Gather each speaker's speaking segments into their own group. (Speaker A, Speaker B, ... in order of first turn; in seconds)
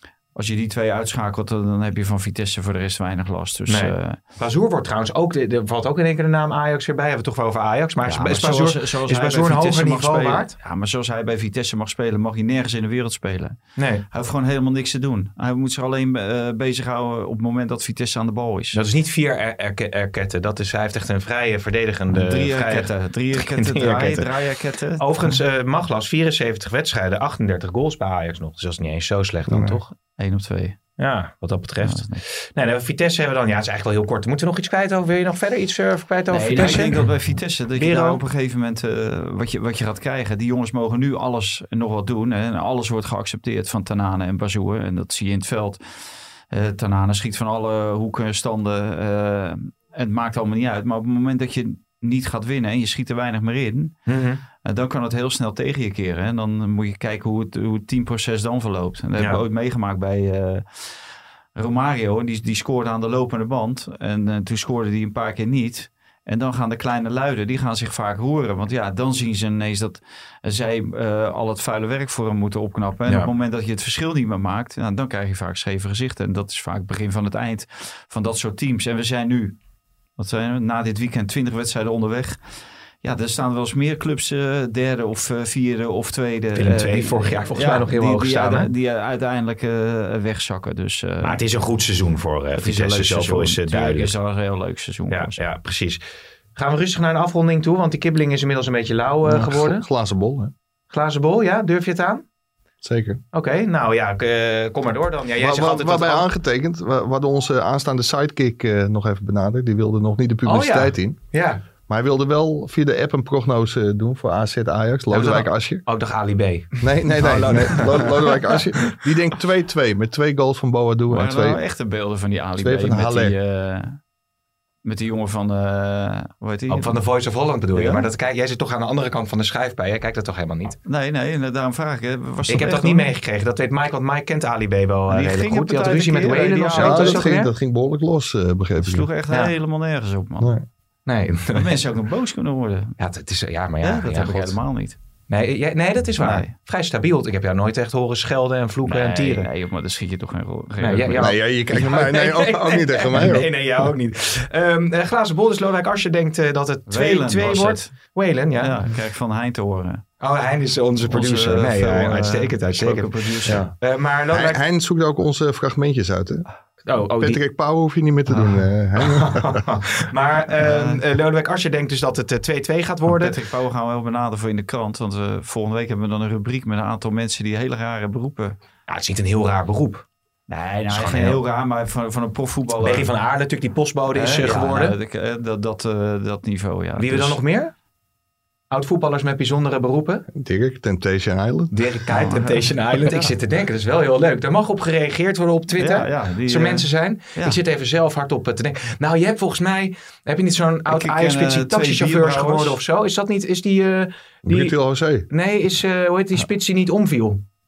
Speaker A: 0.3-4.2, 8.1-13.6, 14.1-18.8, 22.1-25.4, 30.2-30.8, 31.8-32.2, 36.3-45.8, 46.5-53.9, 54.6-60.9, 61.6-79.6, 80.2-82.4, 83.0-91.4, 92.6-95.4, 121.1-124.0, 124.8-127.0, 127.7-128.1, 130.9-133.1, 135.1-137.3, 138.8-140.6, 141.6-143.0, 143.8-145.0, 146.2-146.5, 148.9-151.3, 156.9-157.9, 158.6-160.0, 161.1-163.7, 168.3-168.7, 170.5-171.0, 173.1-178.6, 180.5-183.1, 184.1-187.4, 192.1-193.3, 195.8-197.6, 200.9-202.8
Speaker B: 3.7-10.5, 13.8-14.1, 18.7-24.4, 25.0-29.9, 31.0-37.1, 37.8-38.2, 54.1-54.4, 86.5-88.7, 91.2-94.1, 95.1-96.0, 96.6-99.9, 100.9-102.2, 103.3-106.3, 110.5-111.6, 115.1-119.0, 126.7-130.8, 132.5-137.5, 141.1-141.8, 143.0-144.6, 145.3-149.5, 150.8-158.8, 160.2-164.6, 166.8-167.4, 169.0-173.4, 178.9-180.1, 180.9-181.4, 182.8-185.0, 187.0-187.7, 188.7-190.3, 191.7-204.8, 205.3-207.4
Speaker C: 29.5-29.8, 99.2-100.5, 102.8-103.2, 105.4-111.2, 111.9-115.8, 116.8-121.6, 122.6-123.4, 136.7-139.1, 140.4-140.7, 151.2-153.9, 163.5-163.7, 164.3-166.5, 167.2-169.6, 190.3-191.8, 204.4-205.3